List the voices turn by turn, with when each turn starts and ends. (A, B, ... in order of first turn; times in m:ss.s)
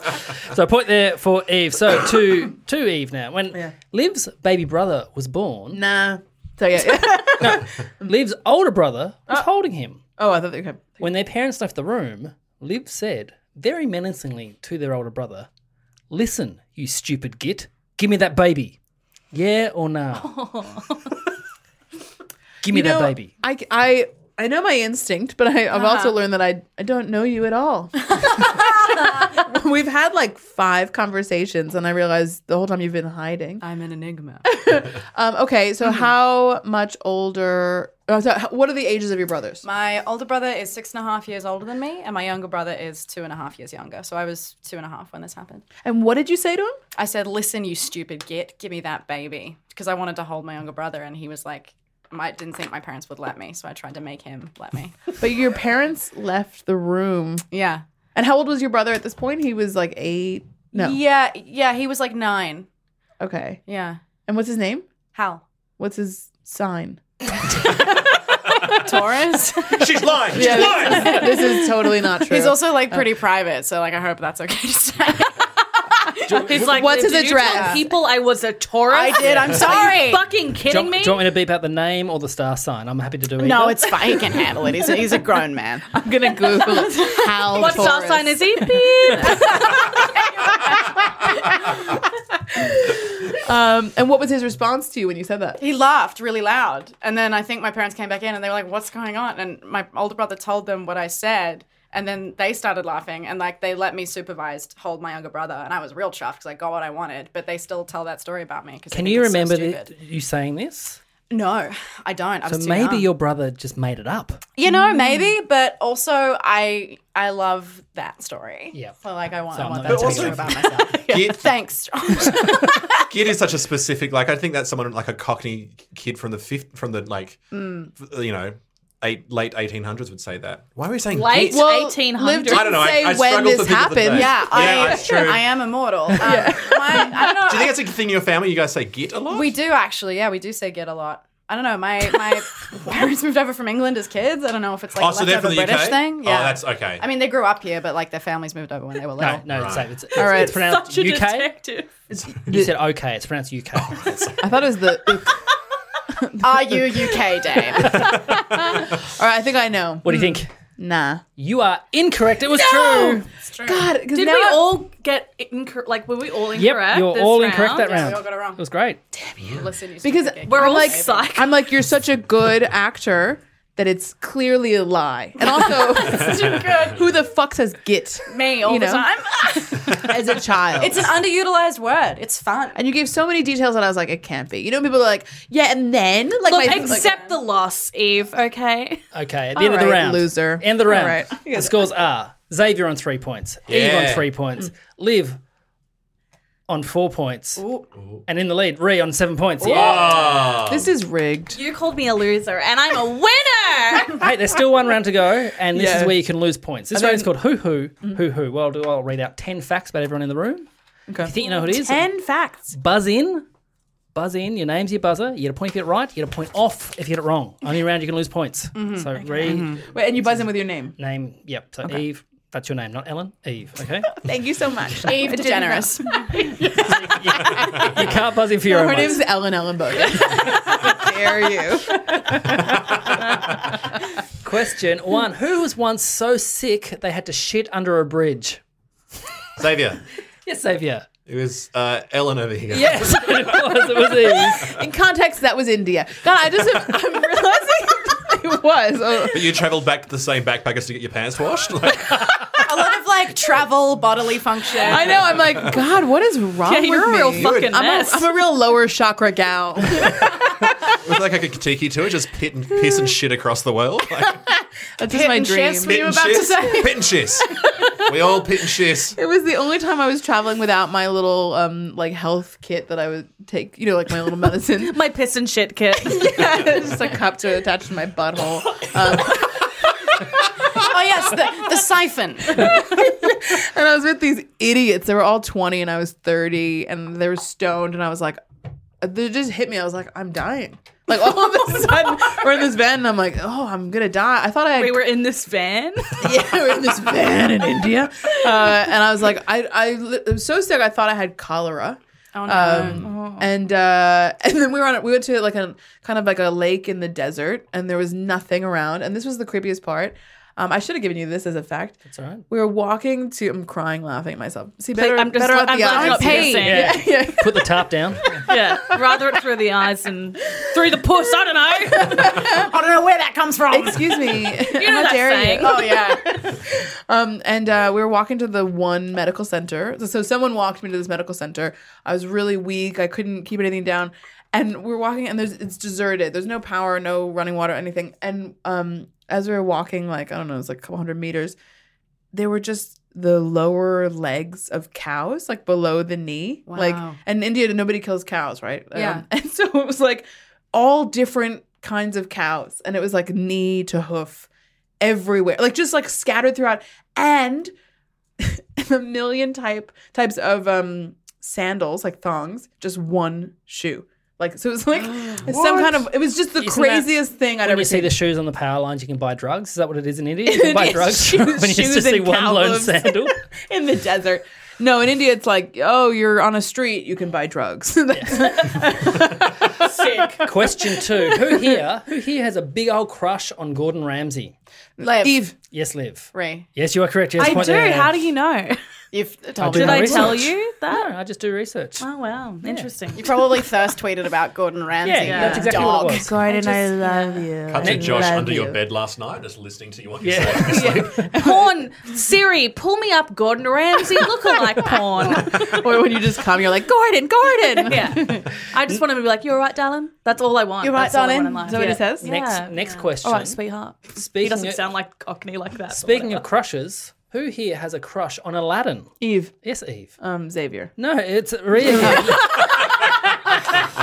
0:00.5-0:05.8 A
0:05.7-0:08.1 B
0:07.4-0:10.0 A
0:10.2-0:11.1 B
0:11.0-0:15.5 A
0:16.1-0:18.8 A
0:19.3-0:20.3 A
0:20.2-0:21.1 C
0:22.6-0:23.3 A
0:22.6-0:33.6 B
0:25.7-0:26.2 C
0:33.6-0:34.4 D
0:34.4-0:39.6 B
0:39.6-0:45.7 D
0:45.8-0:46.8 B
0:47.0-0:55.1 D
0:55.2-0:57.4 B
0:57.5-0:57.8 D
0:58.1-1:01.0 B
1:00.7-1:02.7 D
1:03.2-1:03.6 B
1:03.7-1:04.0 D
1:04.2-1:04.9 B
1:05.1-1:05.4 D
1:05.8-1:07.7 B
1:08.8-1:15.5 D
1:09.7-1:11.4 E
1:10.3-1:13.0 B
1:16.2-1:16.6 D
1:16.3-1:16.6 E
1:16.4-1:21.3 C
1:16.6-1:17.8 B
1:17.4-1:17.9 D
1:18.9-1:20.2 D
1:20.7-1:23.9 A
1:23.4-1:25.9 D
1:25.9-1:29.3 B
1:27.5-1:29.8 C
1:29.2-1:31.6 D
1:32.5-1:35.6 B
1:35.6-1:49.9 D
1:48.9-1:51.0 A
1:51.3-1:53.1 D
1:52.4-1:54.4 A
1:54.6-2:03.0 D
1:54.7-1:55.3 B
1:59.5-2:00.7 A
1:59.8-2:01.5 E
2:03.0-2:07.4 E
2:08.0-2:11.7 E
2:11.1-2:12.9 C
2:11.4-2:15.3 B
2:12.4-2:15.7 E
2:14.1-2:17.8 D
2:16.1-2:17.4 B
2:17.4-2:19.6 E
2:19.3-2:29.7 D
2:24.9-2:27.0 E
2:29.2-2:31.5 A
2:29.4-2:29.9 E
2:30.2-2:30.6 B
2:30.2-2:31.9 C
2:32.1-2:32.8 B
2:32.4-2:34.1 A
2:33.8-2:34.7 E
2:34.4-2:35.4 B
2:36.2-2:37.2 B
2:36.4-2:38.3 D
2:37.8-2:41.2 B
2:38.0-2:38.3 E
2:40.0-2:40.5 A
2:41.4-2:43.2 A
2:42.6-2:44.8 B
2:43.4-2:43.9 D
2:44.1-2:48.1 C
2:46.5-2:49.0 A
2:47.6-2:48.6 D
2:49.4-2:49.7 E
2:49.5-2:51.3 D
2:50.0-2:59.1 B
2:50.4-2:51.6 C
2:55.4-2:57.1 D
2:56.5-2:56.8 E
2:58.2-3:00.2 D
2:59.6-3:01.1 B
3:00.8-3:02.8 D
3:02.7-3:07.1 B
3:06.4-3:09.0 C
3:06.8-3:07.3 D
3:09.1-3:15.4 A
3:09.5-3:11.8 B
3:13.7-3:14.3 E
3:16.7-3:17.6 A
3:17.6-3:17.8 D
3:18.3-3:20.2 A
3:19.6-3:21.6 B
3:19.7-3:20.9 E
3:21.5-3:24.2 C
3:24.2-3:30.7 A
3:25.7-3:26.2 B
3:26.9-3:27.3 B
3:31.1-3:32.7 B
3:31.2-3:32.1 A
3:32.7-3:33.4 A
3:34.1-3:39.7 A
3:38.7-3:39.9 D
3:39.5-3:41.0 B
3:41.0-3:44.2 A
3:44.2-3:46.6 B
3:45.0-3:47.8 D
3:46.8-3:49.3 A
3:48.6-3:52.6 B
3:54.4-3:58.6 A
3:59.6-4:00.0 E
4:00.4-4:01.1 A
4:01.2-4:04.7 E
4:02.7-4:04.7 A
4:04.7-4:09.6 B
4:09.3-4:12.5 E
4:12.6-4:15.2 D
4:14.8-4:15.3 C
4:14.9-4:20.3 B
4:15.4-4:15.8 E
4:16.6-4:18.3 C
4:17.4-4:17.8 E
4:21.0-4:24.4 E
4:25.0-4:26.3 B
4:25.1-4:27.3 D
4:25.8-4:27.5 E
4:28.0-4:29.2 E
4:29.1-4:35.0 B
4:34.8-4:36.5 C
4:36.0-4:39.5 B
4:40.8-4:42.8 D
4:42.6-4:48.4 B
4:49.0-4:55.1 B
4:54.8-4:56.5 C
4:56.2-5:17.7 B
4:58.6-4:58.8 C
5:02.3-5:03.1 D
5:02.7-5:03.5 C
5:12.1-5:12.4 A
5:14.9-5:17.0 C
5:15.8-5:16.7 D
5:16.6-5:18.4 A
5:18.5-5:22.5 C
5:21.8-5:22.6 B
5:22.2-5:24.2 D
5:23.7-5:41.5 B
5:24.7-5:25.9 C
5:25.6-5:26.5 D
5:42.3-5:54.5 B
5:46.6-5:47.2 D
5:48.9-5:49.2 D
5:55.0-5:57.7 B
5:58.4-6:08.2 B
6:05.3-6:05.7 D
6:06.5-6:13.4 A
6:10.4-6:20.5 B
6:18.1-6:18.5 A
6:19.9-6:20.4 C
6:20.4-6:24.5 A
6:21.3-6:21.8 B
6:25.0-6:25.4 D
6:25.0-6:25.5 B
6:25.7-6:28.1 A
6:26.3-6:26.7 D
6:27.4-6:28.8 C
6:29.1-6:30.5 D
6:29.6-6:32.0 A
6:29.7-6:31.1 C
6:32.0-6:33.4 C
6:32.6-6:32.9 A
6:33.1-6:36.6 D
6:35.0-6:36.4 A
6:35.2-6:38.7 C
6:36.4-6:37.5 B
6:37.6-6:41.3 E
6:37.8-6:38.6 A
6:40.2-6:41.2 A
6:40.6-6:41.7 B
6:41.3-6:46.0 C
6:44.9-6:48.5 B
6:47.8-6:56.4 C
6:50.8-6:52.3 B
6:50.9-6:51.7 D
6:52.2-6:53.6 A
6:54.1-6:54.8 A
6:55.9-7:00.1 A
6:59.2-6:59.6 B
7:00.2-7:00.9 B
7:01.0-7:02.6 A
7:01.9-7:02.8 B